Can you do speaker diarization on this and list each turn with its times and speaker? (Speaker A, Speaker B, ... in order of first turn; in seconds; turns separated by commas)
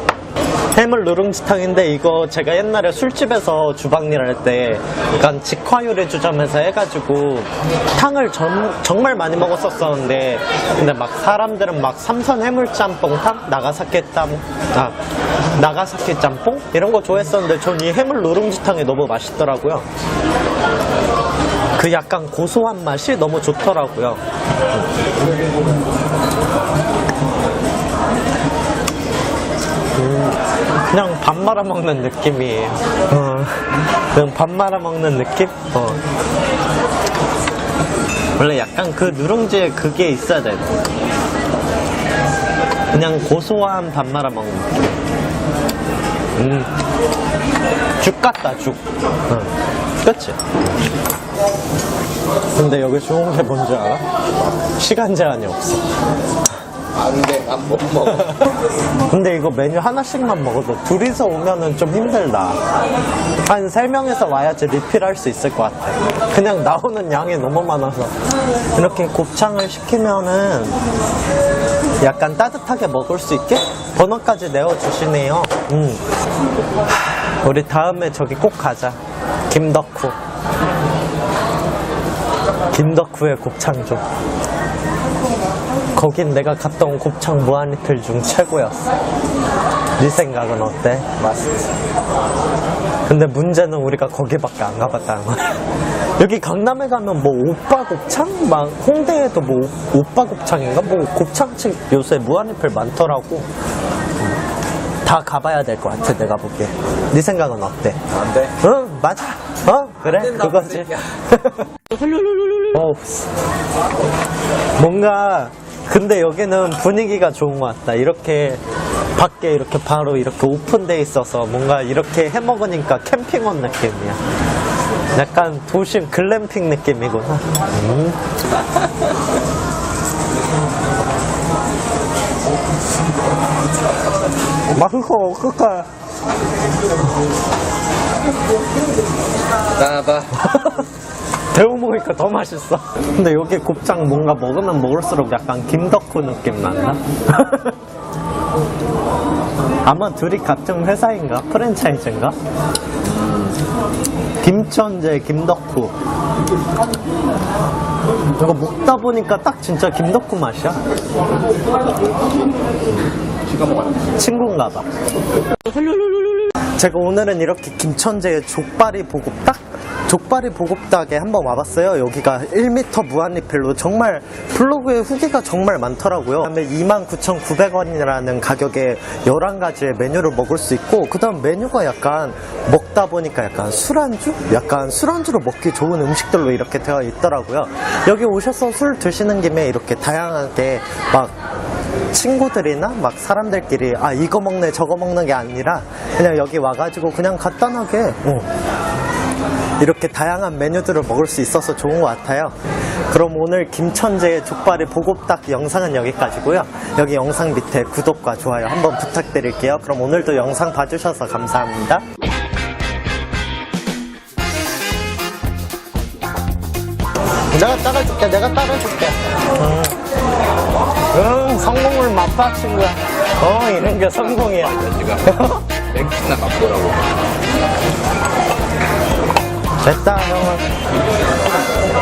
Speaker A: 0.8-14.9, Speaker A: 15.6-19.9, Speaker A: 21.8-24.2, Speaker A: 29.9-36.0, Speaker A: 38.4-40.8, Speaker A: 42.9-45.0, Speaker A: 46.4-46.7, Speaker A: 48.0-50.5, Speaker A: 52.5-54.0, Speaker A: 54.8-55.9, Speaker B: 56.9-58.4, Speaker A: 58.1-58.5, Speaker A: 59.1-62.6, Speaker A: 63.5-68.1, Speaker A: 68.7-70.8, Speaker A: 72.0-76.0, Speaker A: 77.4-79.0, Speaker A: 79.5-80.2, Speaker A: 82.7-84.0, Speaker A: 86.0-88.9, Speaker A: 90.0-91.4, Speaker A: 93.1-95.6, Speaker A: 96.2-103.5, Speaker A: 105.0-111.7, Speaker A: 112.5-113.3, Speaker A: 114.8-118.6, Speaker A: 119.2-124.2, Speaker A: 125.1-128.2, Speaker A: 134.7-135.9, Speaker B: 139.8-140.3, Speaker A: 140.3-140.8, Speaker A: 141.5-147.8, Speaker A: 149.9-152.4, Speaker A: 154.4-155.9, Speaker A: 158.4-160.8, Speaker B: 163.4-164.1, Speaker A: 164.2-164.9, Speaker A: 166.8-191.3, Speaker A: 192.1-198.5, Speaker A: 199.8-202.5, Speaker A: 203.1-212.0, Speaker A: 217.5-220.0, Speaker A: 221.1-225.6, Speaker B: 224.5-227.1, Speaker A: 229.8-230.7